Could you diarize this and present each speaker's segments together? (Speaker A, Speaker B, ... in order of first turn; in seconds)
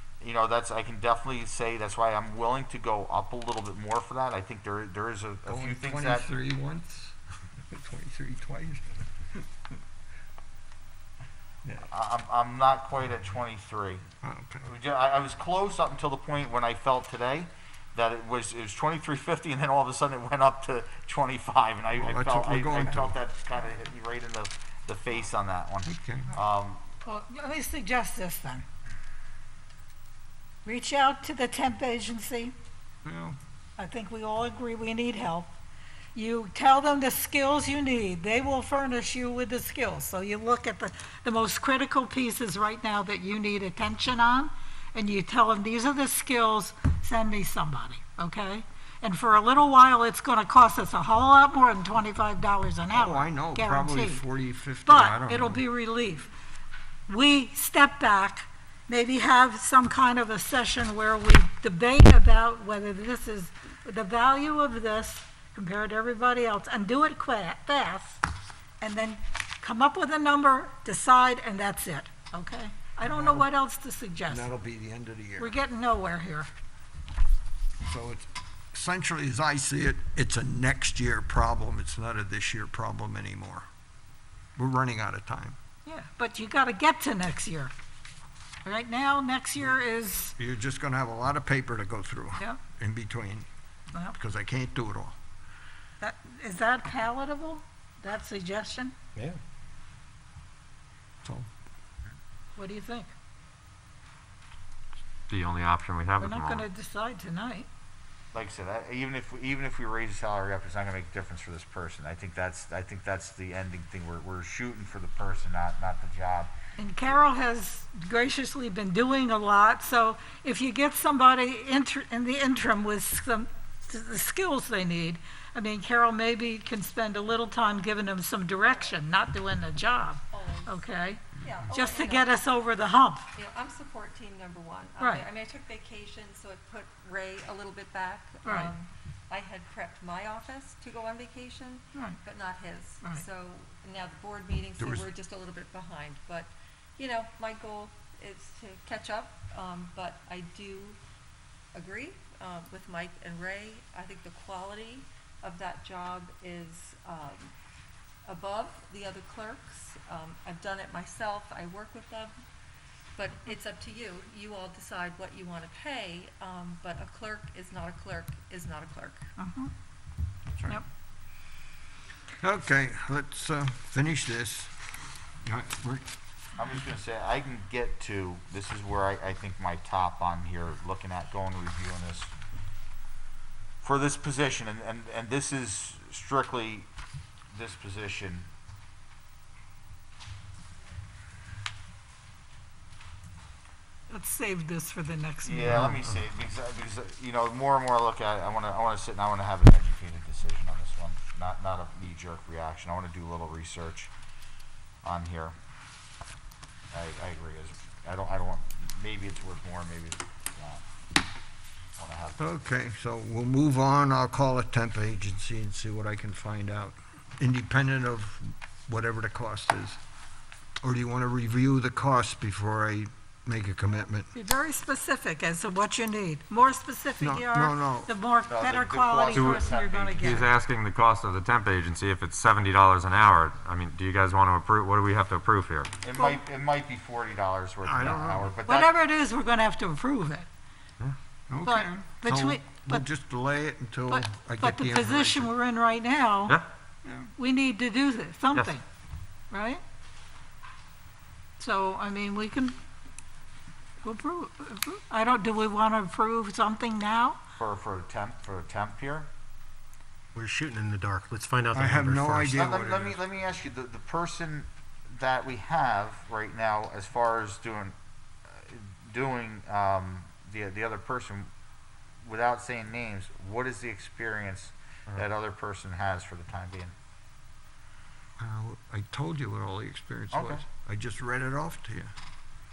Speaker A: 0.2-6.3, 11.9-14.0, 14.6-26.8, 108.3-116.5, 176.6-182.3, 183.8-186.9, 187.5-188.5, 195.4-204.1, 205.0-205.6, 206.9-210.8, 212.0-212.5, 228.5-230.5, 236.0-238.9, 257.6-259.3, 262.4-267.9, 268.5-271.5, 272.2-276.9, 280.3-280.6
Speaker B: 5.5-9.1, 14.2-14.7, 21.9-23.2, 25.9-26.3, 33.0-33.4, 52.9-55.6, 73.0-73.5, 74.3-75.6, 77.8-83.7, 84.6-85.6, 90.4-93.5, 94.1-95.2, 144.8-145.1, 172.4-174.8, 175.4-176.1, 212.4-220.0, 220.8-224.3, 227.2-228.1, 237.8-238.5, 241.5-245.5, 247.1-247.3, 261.7-263.2, 278.4-282.1
Speaker C: 27.1-28.6, 30.6-32.5, 33.8-35.5, 36.1-54.2, 54.9-56.3, 57.1-68.2, 68.8-74.5, 75.4-76.5, 85.9-87.7, 88.6-90.3, 96.0-98.9, 102.6-103.1, 106.2-107.7, 116.8-133.3, 135.0-135.3, 138.4-138.7, 169.4-169.7, 194.1-196.0, 224.3-230.5, 238.7-240.5, 241.6-243.1, 244.1-246.6, 247.4-248.8, 249.5-249.8, 251.6-252.8, 254.0-257.4
Speaker D: 105.3-106.7, 229.3-229.7, 230.2-235.9
Speaker E: 128.7-128.9, 130.3-132.3, 133.3-151.0, 151.7-157.5, 158.3-162.3, 163.2-169.3
Speaker F: 260.4-262.6